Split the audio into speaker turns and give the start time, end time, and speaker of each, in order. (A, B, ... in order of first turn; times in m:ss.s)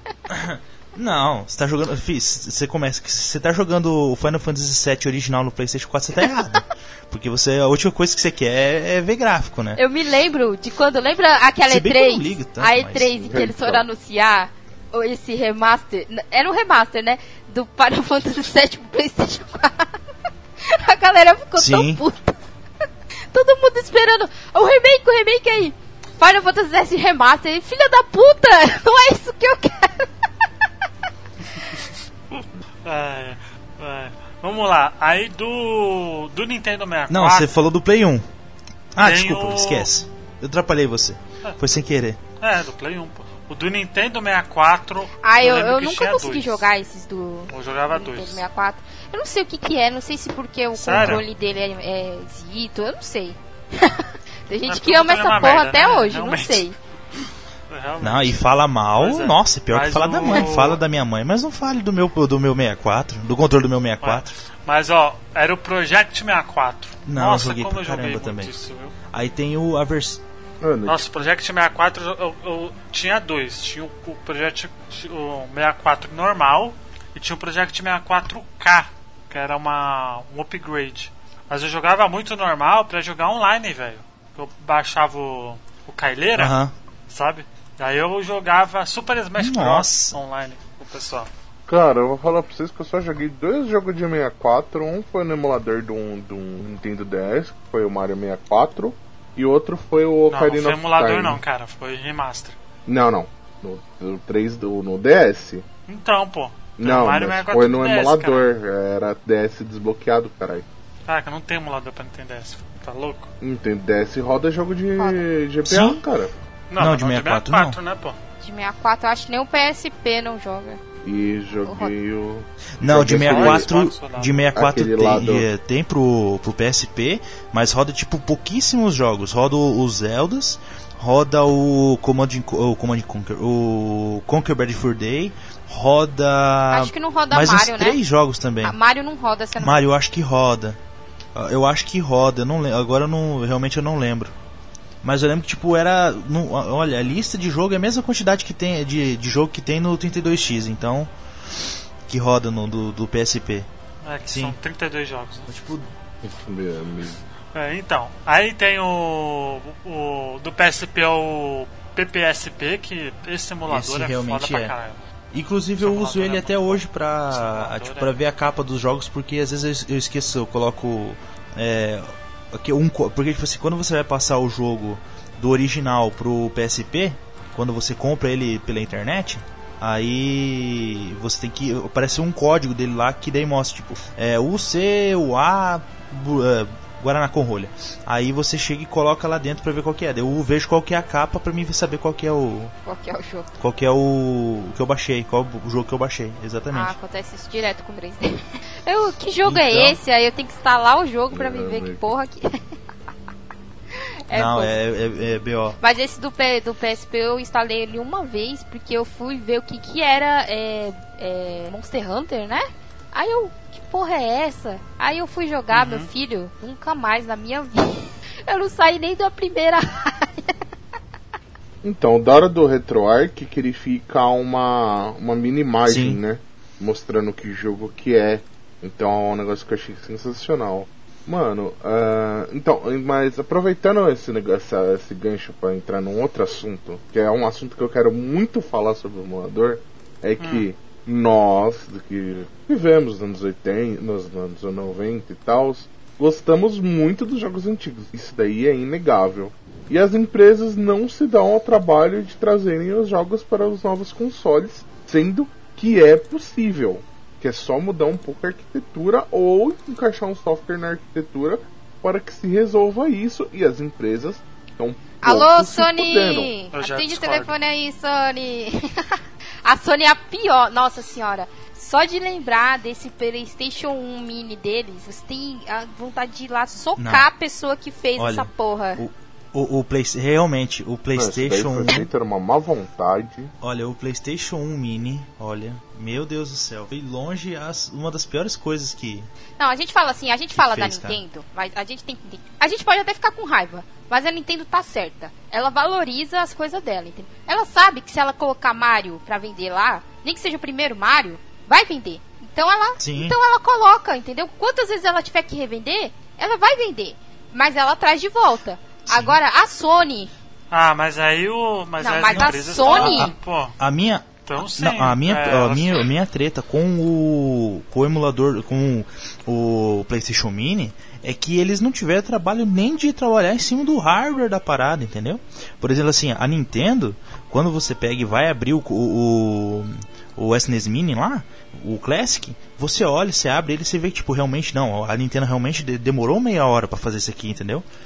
0:00.3-0:09.8 A
0:09.8-0:19.9 B
0:11.7-0:13.1 A
0:13.2-0:13.9 C
0:20.6-0:22.4 B
0:21.6-0:22.0 A
0:23.3-0:30.3 B
0:31.5-0:31.9 D
0:32.8-0:37.5 D
0:37.1-0:38.3 A
0:38.9-0:42.2 A
0:39.0-0:39.9 D
0:42.4-0:46.6 D
0:45.2-0:56.8 B
0:47.5-0:48.4 D
0:50.8-0:51.3 D
0:51.0-0:51.2 A
0:54.7-0:56.6 D
0:57.7-1:00.8 D
0:58.0-1:04.3 A
1:04.0-1:08.9 D
1:07.1-1:08.5 A
1:09.1-1:10.2 A
1:10.6-1:11.1 C
1:10.9-1:26.6 D
1:26.4-1:26.7 A
1:27.1-1:31.3 D
1:29.4-1:30.2 A
1:31.7-1:41.4 C
1:40.3-1:42.6 D
1:42.9-1:45.6 C
1:45.9-1:48.5 D
1:46.8-1:50.6 C
1:51.1-1:53.3 D
1:53.4-1:56.3 C
1:55.6-1:56.0 A
1:56.7-1:58.2 D
1:56.8-1:57.8 A
1:58.4-2:00.8 B
2:01.0-2:03.7 C
2:01.6-2:01.9 B
2:02.8-2:18.8 A
2:03.1-2:04.5 D
2:04.6-2:05.5 C
2:16.7-2:18.0 B
2:18.6-2:19.8 B
2:19.6-2:20.8 A
2:21.3-2:24.3 A
2:25.0-2:31.1 A
2:32.1-2:33.7 A
2:34.0-2:35.5 D
2:34.3-2:34.6 A
2:35.5-2:35.9 A
2:36.2-2:37.2 C
2:37.5-2:45.0 D
2:43.7-2:44.7 A
2:45.3-3:12.7 A
2:45.8-2:48.1 D
3:12.9-3:13.5 B
3:13.6-3:17.0 A
3:16.7-3:22.6 B
3:19.4-3:20.0 A
3:21.3-3:22.1 C
3:23.9-3:24.8 B
3:24.3-3:25.8 A
3:25.8-3:40.6 B
3:35.7-3:36.1 D
3:41.8-4:26.5 C
3:45.9-3:46.2 A
4:00.4-4:00.7 D
4:25.2-4:39.0 B
4:26.7-4:27.6 D
4:37.0-4:37.3 A
4:38.2-4:42.0 A
4:41.1-4:43.5 C
4:43.6-4:49.3 A
4:49.6-5:10.3 B
4:50.5-4:51.2 A
5:03.0-5:03.4 A
5:09.1-5:09.4 A
5:10.7-5:13.8 D
5:12.0-5:13.3 B
5:12.3-5:37.9 A
5:14.4-5:16.1 D